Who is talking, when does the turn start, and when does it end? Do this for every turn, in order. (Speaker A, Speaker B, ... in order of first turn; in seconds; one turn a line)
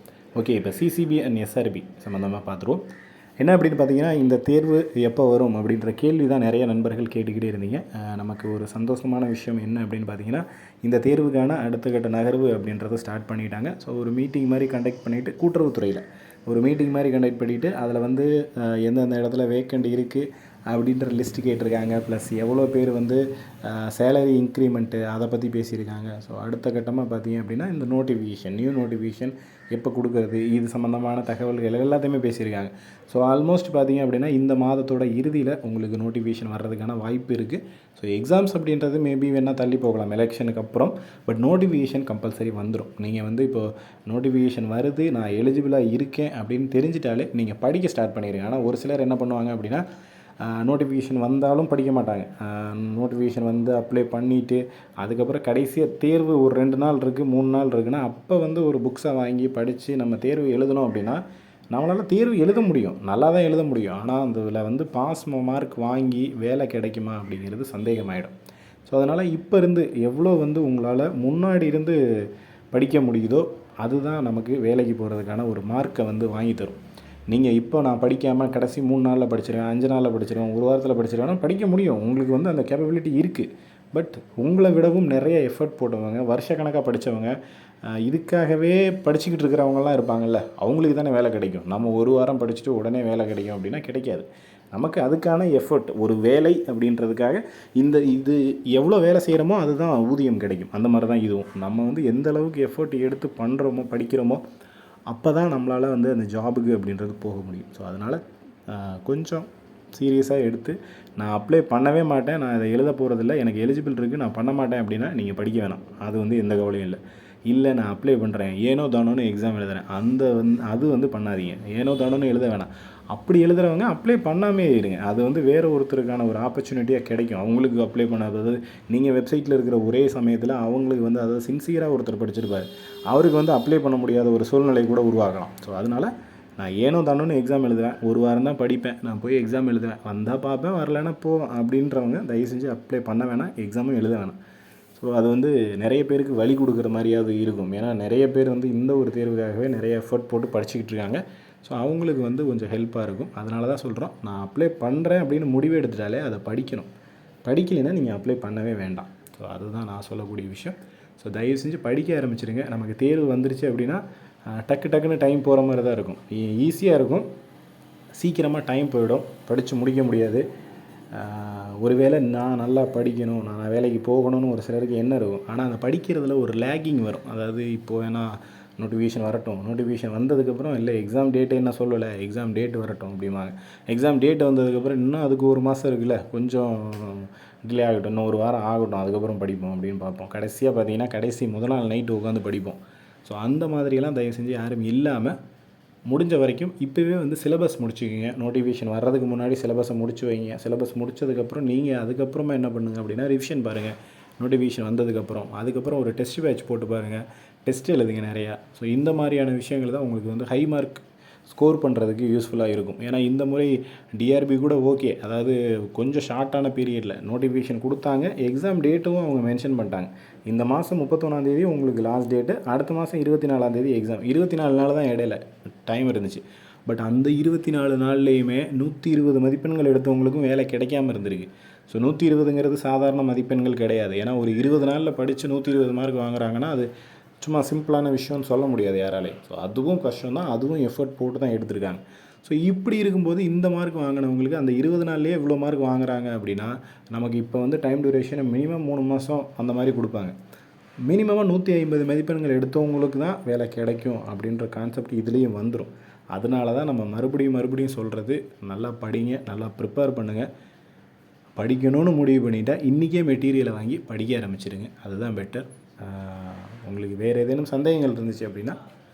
Speaker A: 0.4-2.8
Speaker A: 3.4-49.8
Speaker A: 50.4-61.2
Speaker A: 61.7-68.3
Speaker A: 68.9-72.0
Speaker A: 72.7-76.8
Speaker A: 77.3-104.4
Speaker A: 105.1-144.4
Speaker A: 145.0-156.9
Speaker A: 157.4-167.3
Speaker A: 168.2-170.4
Speaker A: 171.1-195.4
Speaker A: 196.1-236.9
Speaker A: 237.4-250.3
Speaker A: 251.1-260.5
Speaker A: 261.6-268.8